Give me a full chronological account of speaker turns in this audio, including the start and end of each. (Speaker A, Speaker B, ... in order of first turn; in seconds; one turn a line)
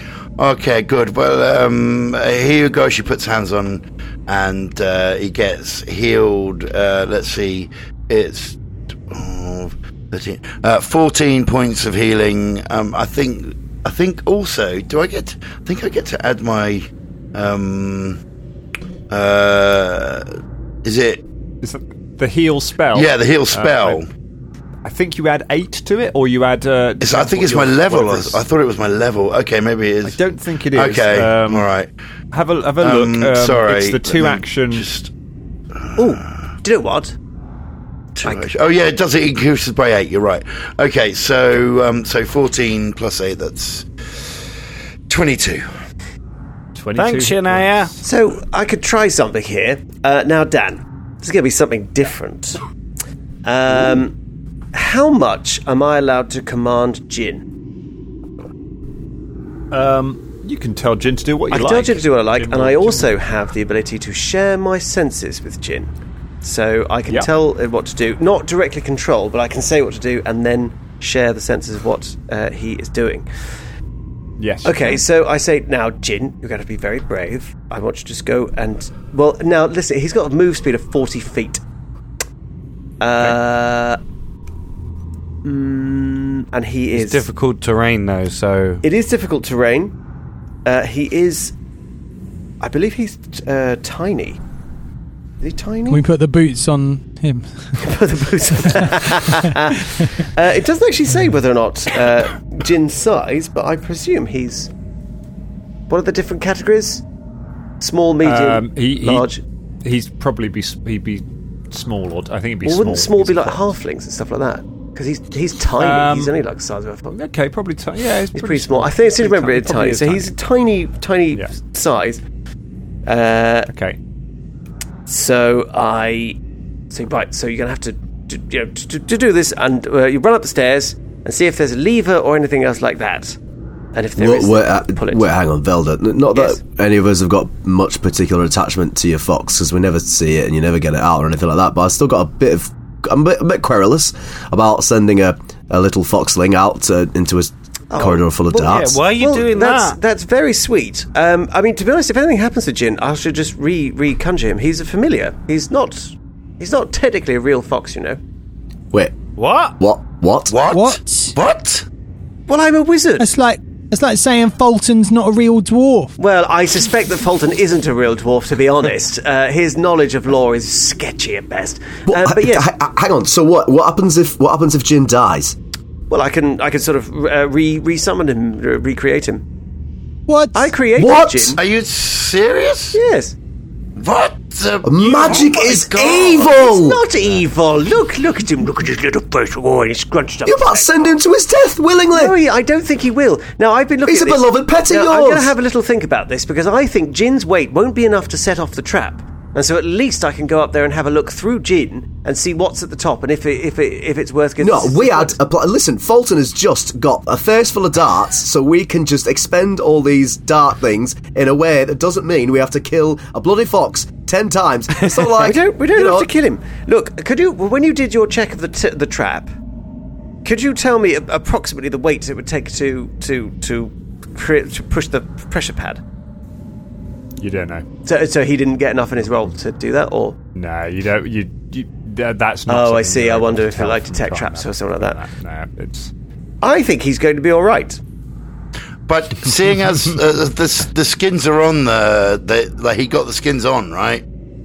Speaker A: 0.4-8.6
Speaker A: 9.1-18.2
Speaker A: 19.1-20.3
Speaker A: 20.8-21.2
Speaker B: 21.6-24.0
Speaker A: 22.9-24.1
Speaker B: 24.8-28.4
Speaker A: 27.0-30.2
Speaker B: 30.0-31.7
Speaker A: 30.7-31.9
Speaker B: 32.3-34.9
Speaker A: 32.8-35.1
Speaker A: 35.8-36.3
Speaker C: 36.0-37.1
Speaker A: 38.2-43.9
Speaker A: 45.1-45.7
Speaker B: 46.7-48.0
Speaker D: 47.0-47.9
Speaker C: 48.0-52.6
Speaker C: 53.4-54.1
Speaker C: 54.7-57.5
Speaker B: 59.7-63.2
Speaker C: 61.5-73.3
Speaker B: 74.4-75.0
Speaker C: 74.6-81.6
Speaker C: 83.0-84.0
Speaker C: 85.4-87.2
Speaker D: 86.9-88.8
Speaker C: 88.8-89.9
Speaker C: 90.6-91.5
Speaker C: 92.6-94.4
Speaker C: 95.4-96.0
Speaker E: 95.9-97.8
Speaker C: 97.8-104.7
Speaker C: 105.9-107.0
Speaker C: 107.8-109.4
Speaker B: 108.2-109.3
Speaker B: 109.8-113.7
Speaker C: 112.6-117.2
Speaker B: 115.8-116.3
Speaker B: 117.1-120.3
Speaker C: 118.3-122.2
Speaker C: 123.0-123.7
Speaker B: 123.7-124.0
Speaker C: 125.1-126.4
Speaker C: 126.9-133.4
Speaker C: 133.9-135.3
Speaker F: 134.2-149.0
Speaker C: 136.3-136.6
Speaker C: 147.9-158.2
Speaker D: 148.7-150.0
Speaker F: 158.9-159.2
Speaker D: 159.4-159.7
Speaker F: 159.8-160.6
Speaker A: 160.5-161.8
Speaker E: 160.7-161.3
Speaker C: 162.5-163.3
Speaker E: 163.2-166.1
Speaker C: 166.2-172.7
Speaker F: 172.1-175.6
Speaker C: 176.1-179.4
Speaker E: 180.3-180.7
Speaker C: 180.5-181.6
Speaker F: 181.0-181.6
Speaker A: 181.6-183.0
Speaker C: 182.9-183.3
Speaker A: 184.0-186.5
Speaker F: 184.8-187.0
Speaker C: 186.2-190.9
Speaker F: 190.4-192.3
Speaker C: 192.1-205.3
Speaker F: 194.1-195.5
Speaker F: 204.6-216.3
Speaker C: 215.3-219.5
Speaker C: 220.4-226.0
Speaker B: 227.4-227.8
Speaker C: 228.1-230.4
Speaker B: 230.5-236.1
Speaker C: 232.7-235.2
Speaker C: 236.6-238.0
Speaker A: 239.1-244.2